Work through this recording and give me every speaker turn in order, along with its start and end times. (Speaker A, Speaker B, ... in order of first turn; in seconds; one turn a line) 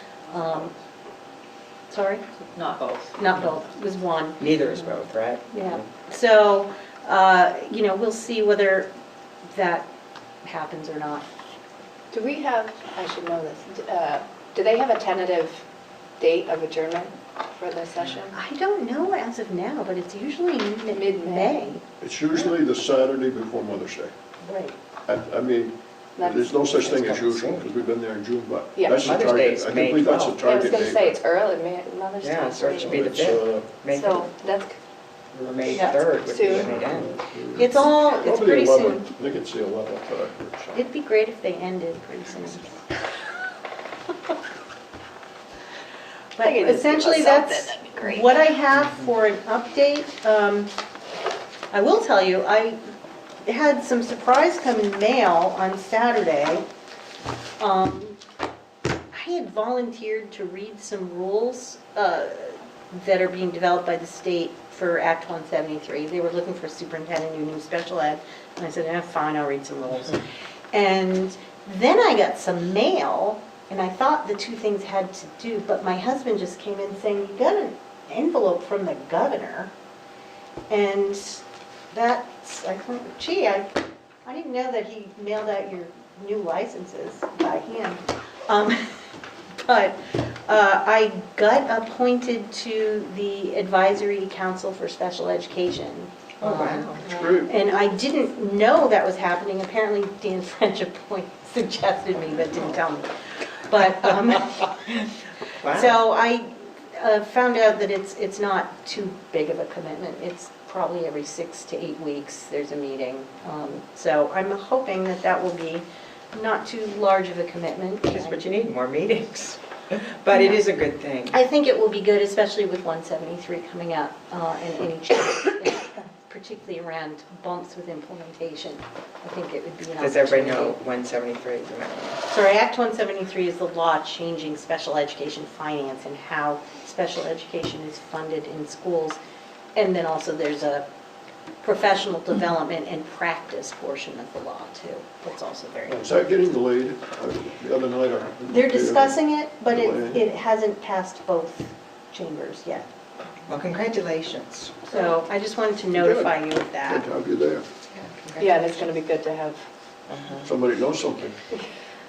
Speaker A: 0.3-0.7
Speaker A: 1.9-2.2
Speaker B: 2.5-3.0
Speaker A: 3.2-4.5
Speaker C: 4.4-5.6
Speaker A: 5.5-8.9
Speaker A: 9.5-9.9
Speaker A: 10.4-11.2
Speaker B: 12.1-15.6
Speaker B: 16.2-18.4
Speaker A: 18.3-21.8
Speaker B: 20.9-21.6
Speaker D: 22.0-24.1
Speaker A: 24.4-24.8
Speaker D: 25.1-31.2
Speaker B: 26.2-26.9
Speaker C: 26.8-27.7
Speaker B: 28.8-29.1
Speaker C: 28.9-30.4
Speaker B: 30.4-33.0
Speaker C: 32.2-34.3
Speaker D: 32.7-33.7
Speaker B: 33.9-34.8
Speaker C: 35.3-37.1
Speaker B: 35.8-36.7
Speaker D: 36.5-40.9
Speaker A: 37.5-39.1
Speaker A: 40.7-42.8
Speaker A: 46.4-50.7
Speaker B: 46.4-48.5
Speaker C: 48.7-49.0
Speaker A: 51.7-52.8
Speaker A: 53.4-56.6
Speaker A: 57.6-58.2
Speaker A: 59.1-79.7
Speaker A: 80.7-83.7
Speaker A: 84.2-88.8
Speaker A: 89.6-104.8
Speaker C: 96.4-97.1
Speaker D: 97.0-97.6
Speaker C: 105.6-106.0
Speaker A: 105.7-118.4
Speaker C: 118.1-121.3
Speaker A: 120.3-120.6
Speaker A: 121.3-130.8
Speaker C: 130.0-132.2
Speaker A: 132.3-139.2
Speaker A: 139.7-140.8
Speaker A: 141.6-146.2
Speaker D: 145.9-150.2
Speaker A: 148.5-152.9
Speaker C: 153.5-154.9
Speaker A: 154.9-157.0
Speaker D: 155.9-157.7
Speaker C: 157.9-158.6
Speaker B: 158.4-159.7
Speaker C: 160.1-160.5
Speaker D: 160.4-161.4